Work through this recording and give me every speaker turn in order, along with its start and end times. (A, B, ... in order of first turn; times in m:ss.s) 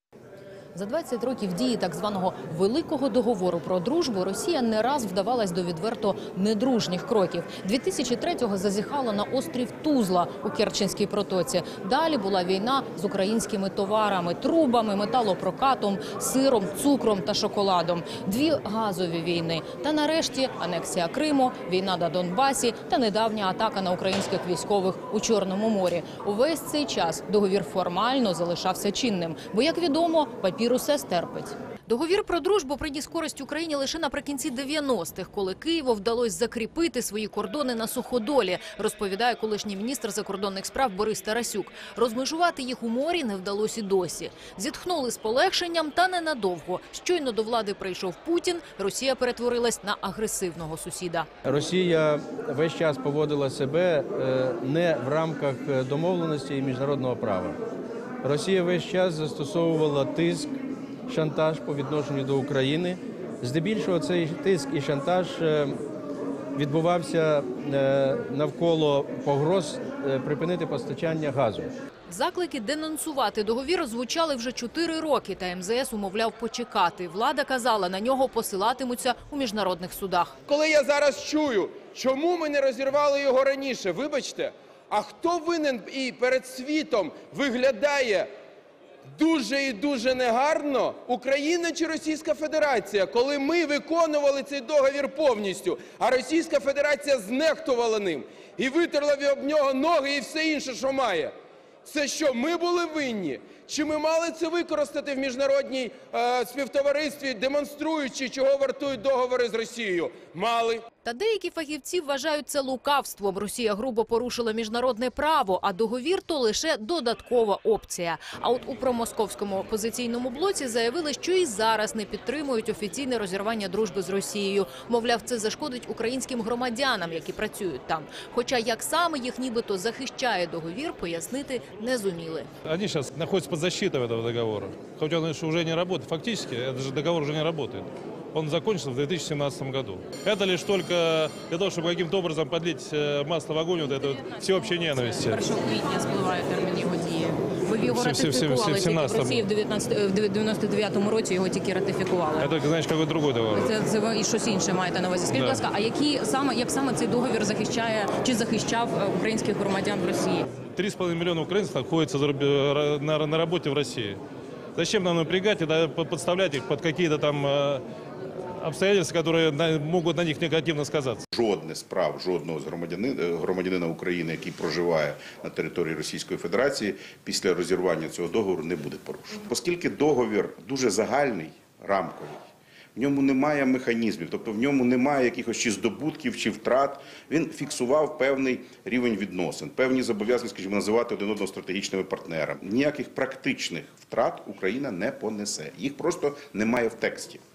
0:00.7-0:51.3 A
0:51.4-0:57.6 B
0:58.2-1:00.5 B
1:01.1-1:05.7 B
1:06.5-1:11.7 B
1:12.1-1:20.4 A
1:20.5-1:28.3 C
1:29.1-1:41.3 C
1:41.8-1:50.8 C
1:51.0-2:12.5 A
2:12.6-2:25.4 D
2:24.9-2:32.5 A
2:27.9-2:29.4 D
2:32.4-2:33.7 D
2:33.5-2:40.4 A
2:35.3-2:35.6 D
2:40.8-2:44.2 D
2:44.8-2:47.8 D
2:48.6-2:51.2 D
2:51.3-3:17.4 E